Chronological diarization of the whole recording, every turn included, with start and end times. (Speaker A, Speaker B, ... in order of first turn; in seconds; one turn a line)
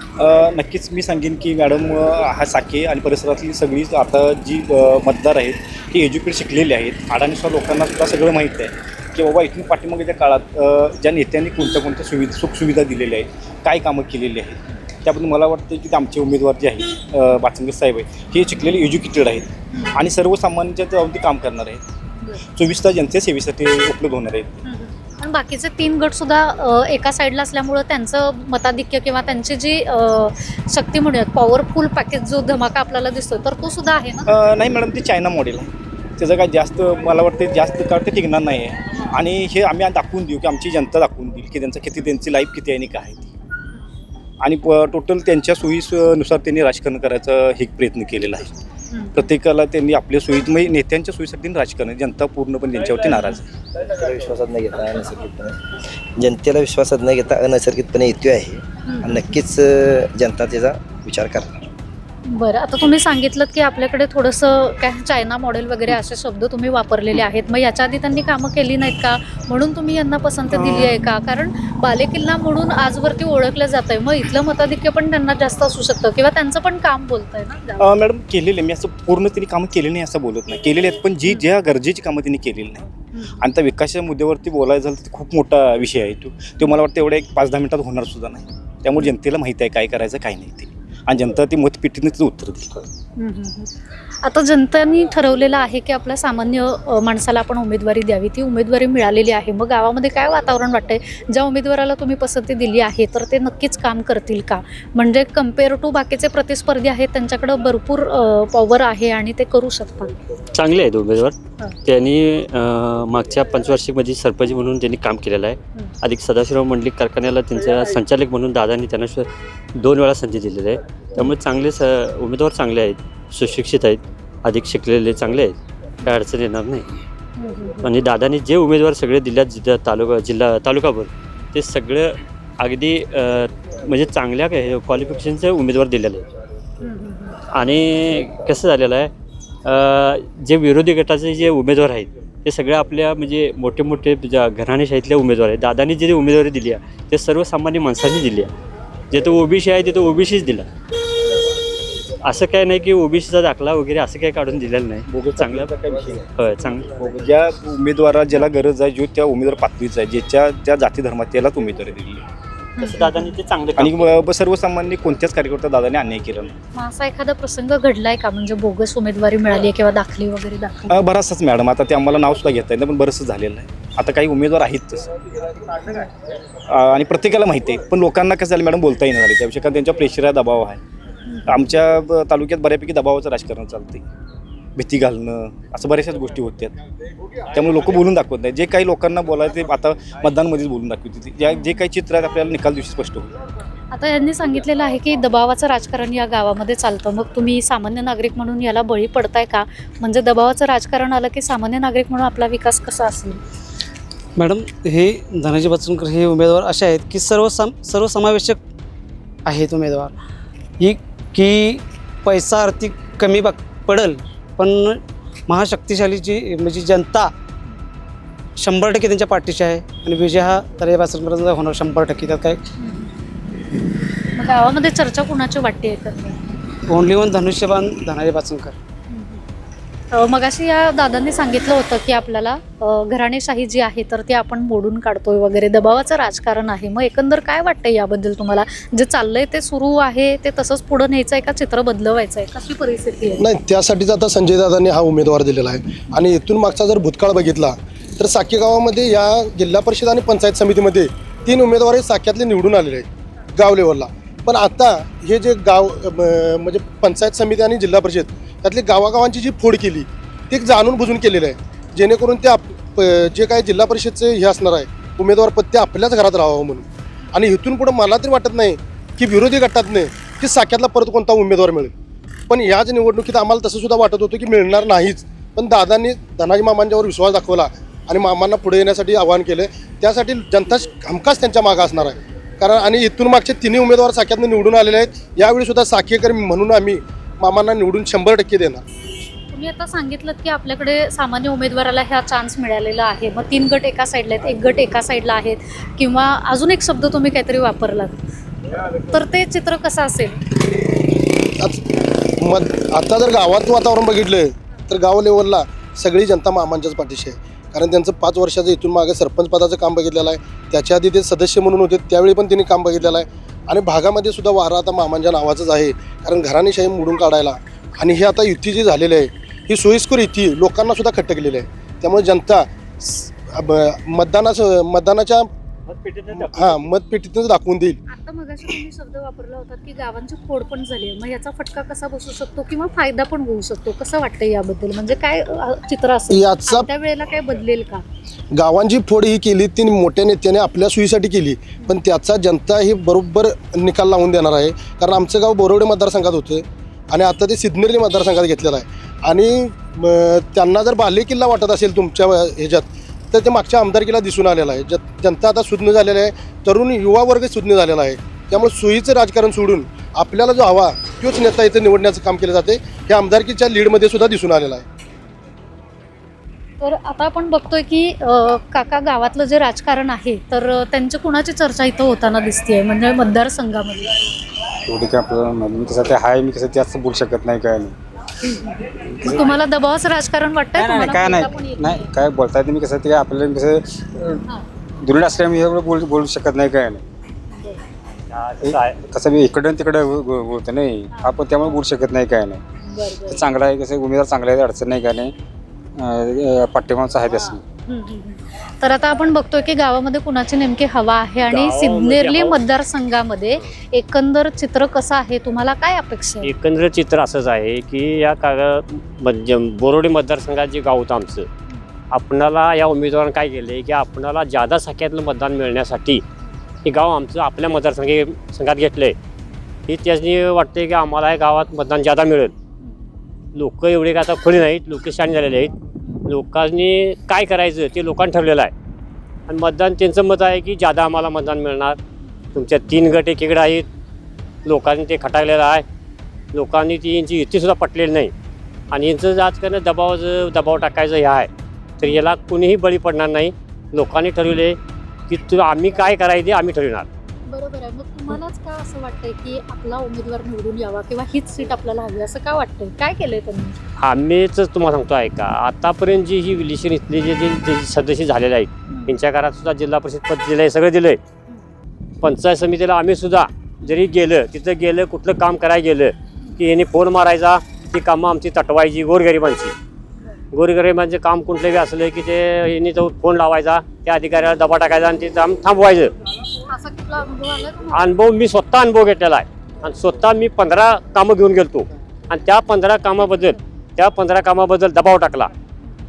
Speaker A: 0.2-21.8
Speaker A: 22.6-24.6
Speaker B: 24.6-34.3
Speaker A: 34.3-43.3
Speaker A: 44.4-48.5
Speaker B: 48.9-49.3
Speaker A: 49.1-53.4
Speaker C: 53.8-55.6
Speaker C: 56.2-61.5
Speaker B: 58.9-59.3
Speaker B: 62.3-78.0
Speaker A: 77.8-92.9
Speaker B: 93.2-93.7
Speaker B: 94.2-110.1
Speaker D: 110.5-126.9
Speaker B: 127.4-127.9
Speaker D: 127.8-136.3
Speaker B: 136.8-137.4
Speaker D: 137.5-139.1
Speaker D: 139.7-148.5
Speaker D: 149.1-150.7
Speaker D: 152.2-155.7
Speaker A: 155.1-156.3
Speaker D: 156.4-156.9
Speaker A: 156.9-162.2
Speaker B: 162.8-163.4
Speaker D: 162.8-164.1
Speaker A: 163.8-166.5
Speaker B: 166.8-170.9
Speaker A: 170.9-175.1
Speaker A: 176.7-180.8
Speaker A: 181.5-184.0
Speaker A: 184.8-186.8
Speaker A: 187.5-193.3
Speaker B: 191.5-191.8
Speaker B: 193.9-203.4
Speaker E: 204.4-208.6
Speaker E: 209.5-210.1
Speaker E: 210.8-217.3
Speaker E: 218.6-222.6
Speaker B: 222.8-223.1
Speaker B: 224.3-226.4
Speaker E: 226.9-228.8
Speaker B: 229.1-229.4
Speaker B: 230.1-243.4
Speaker F: 243.4-271.9
Speaker F: 272.5-288.9
Speaker B: 289.5-298.2
Speaker B: 299.0-300.4
Speaker F: 302.4-325.5
Speaker F: 326.3-328.0
Speaker B: 328.1-338.0
Speaker F: 336.3-336.9
Speaker F: 338.5-364.9
Speaker B: 366.8-374.1
Speaker G: 374.9-378.0
Speaker B: 378.4-382.1
Speaker G: 379.2-379.5
Speaker G: 380.8-384.4
Speaker G: 385.0-387.0
Speaker B: 387.5-387.8
Speaker H: 388.3-389.0
Speaker G: 388.6-392.6
Speaker B: 391.1-391.7
Speaker B: 392.9-393.4
Speaker G: 393.3-395.4
Speaker G: 395.9-397.6
Speaker B: 397.9-406.5
Speaker H: 401.5-402.6
Speaker H: 406.4-411.5
Speaker H: 412.1-416.2
Speaker H: 416.9-419.2
Speaker H: 419.9-422.5
Speaker H: 423.6-425.7
Speaker H: 426.3-428.7
Speaker H: 429.5-432.0
Speaker H: 432.6-433.9
Speaker H: 434.6-435.9
Speaker H: 436.5-438.3
Speaker H: 438.9-441.5
Speaker H: 442.0-447.1
Speaker B: 447.5-453.8
Speaker H: 454.0-461.2
Speaker B: 458.9-459.2
Speaker H: 462.2-469.7
Speaker H: 470.5-476.1
Speaker B: 476.7-478.1
Speaker H: 477.9-485.5
Speaker B: 483.2-483.6